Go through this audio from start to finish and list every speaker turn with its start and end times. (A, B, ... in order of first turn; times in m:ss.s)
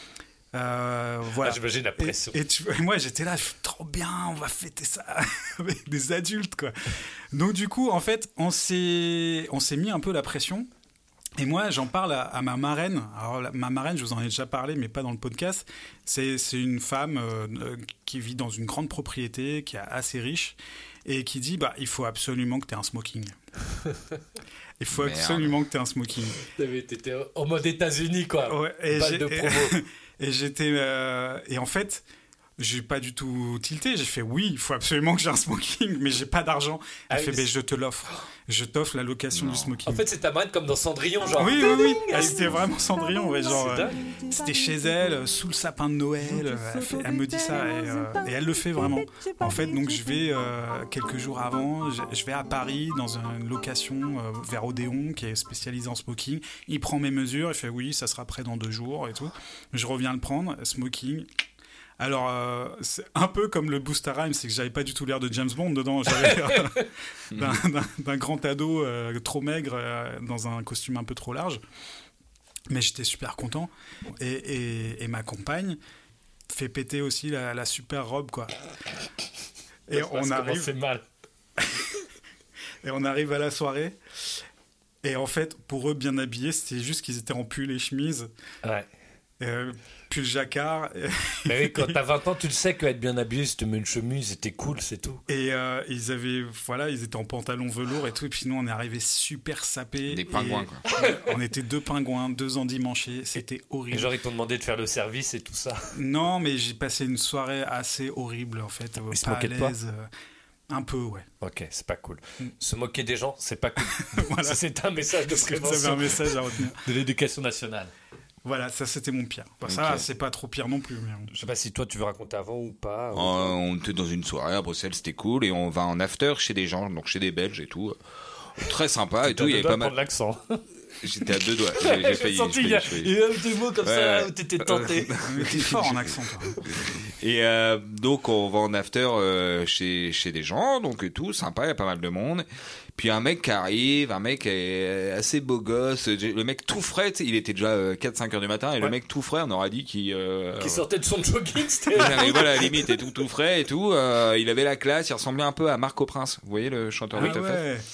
0:00.5-0:10.7 A
0:01.4-0:02.4 B
0:11.4-0:23.3 A
0:24.8-0:26.4 A
0:24.9-0:25.5 C
0:26.5-0:29.8 B
0:28.4-0:32.0 A
0:32.6-0:40.0 A
0:37.1-0:37.5 B
0:39.3-0:39.7 C
0:39.8-0:42.5 B
0:41.4-1:01.3 A
0:43.5-0:44.0 B
1:02.0-1:11.6 A
1:06.2-1:06.8 B
1:07.3-1:07.6 C
1:12.7-1:15.8 A
1:16.5-1:18.5 A
1:19.9-1:20.7 A
1:19.9-1:21.0 B
1:22.8-1:24.0 A
1:25.0-1:28.3 A
1:29.4-1:32.0 A
1:31.4-1:35.2 B
1:35.3-1:44.1 A
1:40.1-1:40.8 C
1:40.9-1:41.2 B
1:43.9-1:46.0 B
1:45.9-1:50.1 A
1:49.1-1:49.8 B
1:50.7-1:51.3 A
1:51.4-1:57.9 B
1:53.9-1:54.6 A
1:55.3-1:56.8 A
1:58.4-2:01.3 A
1:59.6-2:00.0 C
2:01.3-2:03.5 B
2:03.1-2:08.0 C
2:08.6-2:09.9 C
2:09.2-2:10.6 B
2:11.0-2:13.1 C
2:11.8-2:15.1 B
2:13.8-2:16.1 C
2:15.2-2:16.6 A
2:17.1-2:30.8 C
2:30.6-2:32.7 B
2:31.9-2:37.6 C
2:37.2-2:37.8 A